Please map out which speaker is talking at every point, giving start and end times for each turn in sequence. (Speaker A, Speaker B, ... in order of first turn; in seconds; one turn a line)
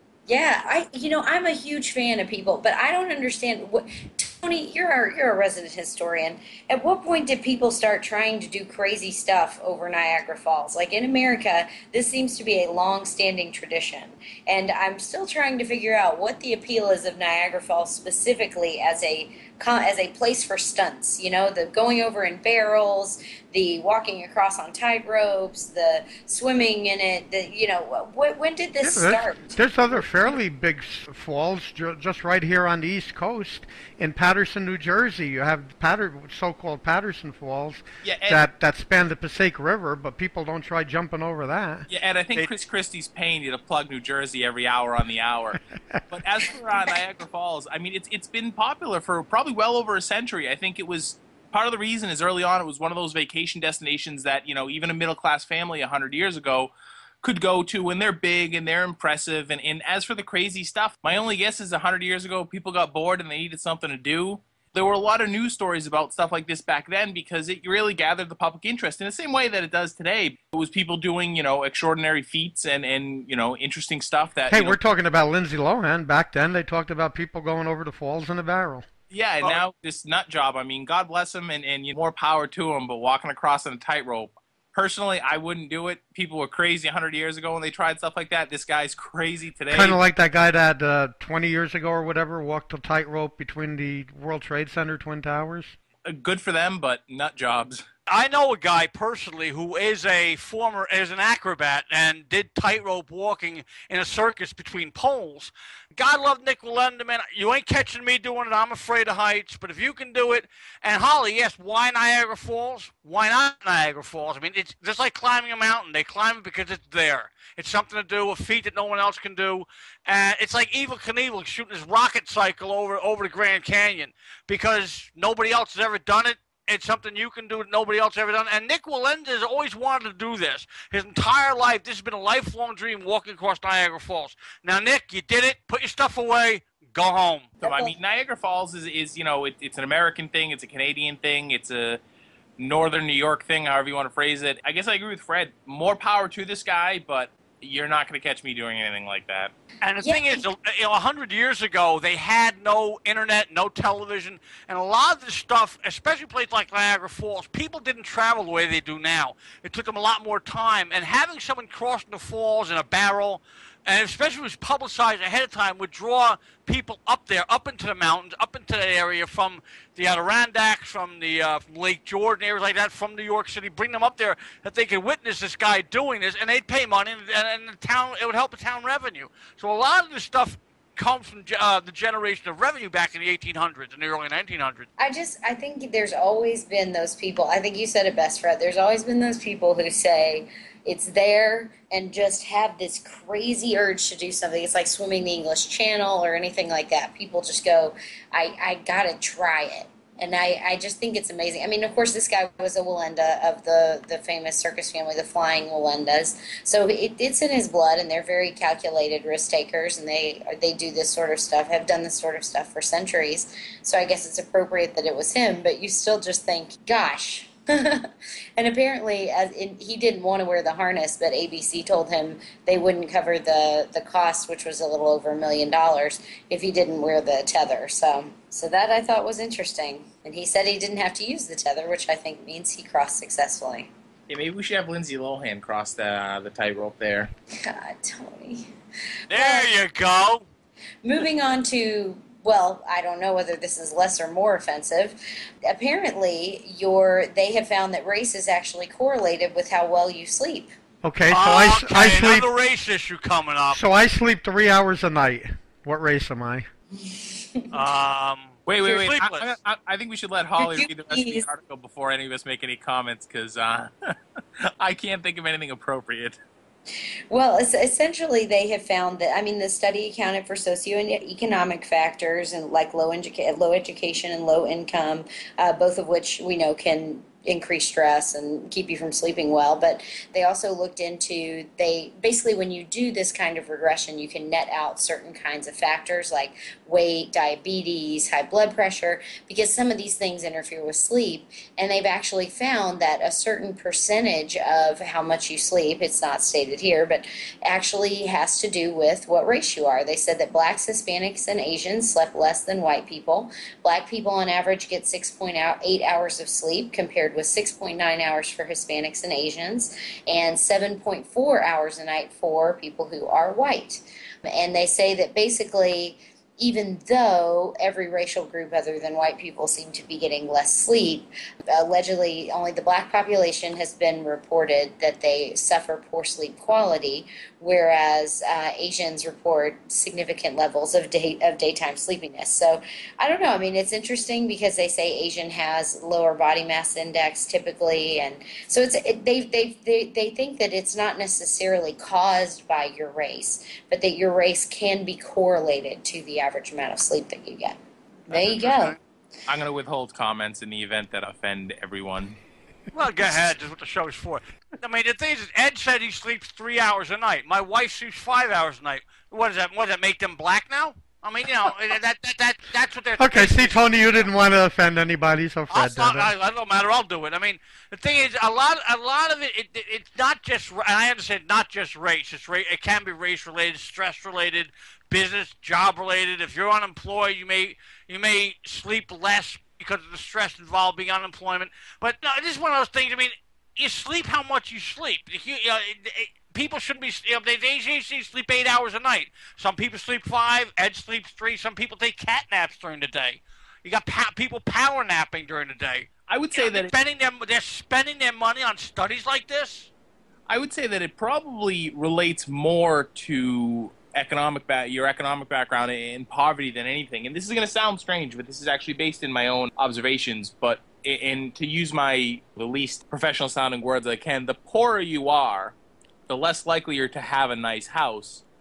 Speaker A: 0.3-30.3
Speaker B: 28.8-41.9
Speaker C: 38.0-38.4
Speaker C: 41.9-56.7
Speaker C: 57.2-74.8
Speaker B: 74.5-78.9
Speaker C: 79.1-90.0
Speaker B: 89.7-95.8
Speaker C: 96.0-97.8
Speaker D: 98.1-137.5
Speaker A: 137.6-137.9
Speaker C: 137.6-142.0
Speaker C: 142.6-149.5
Speaker D: 149.8-184.9
Speaker A: 150.0-150.4
Speaker A: 185.0-233.9
Speaker C: 234.3-237.3
Speaker A: 237.6-238.7
Speaker D: 239.3-240.4
Speaker A: 239.3-239.7
Speaker A: 241.0-250.7
Speaker B: 251.0-252.5
Speaker D: 251.3-253.8
Speaker B: 253.7-256.7
Speaker A: 257.0-257.7
Speaker D: 257.7-259.6
Speaker C: 258.7-266.4
Speaker A: 260.6-261.5
Speaker A: 267.3-347.8
Speaker D: 348.3-349.0
Speaker A: 348.3-349.0
Speaker C: 349.5-352.4
Speaker D: 352.9-364.2
Speaker B: 363.2-366.3
Speaker D: 365.7-399.9
Speaker C: 396.3-396.9
Speaker C: 400.5-415.8
Speaker C: 416.3-418.4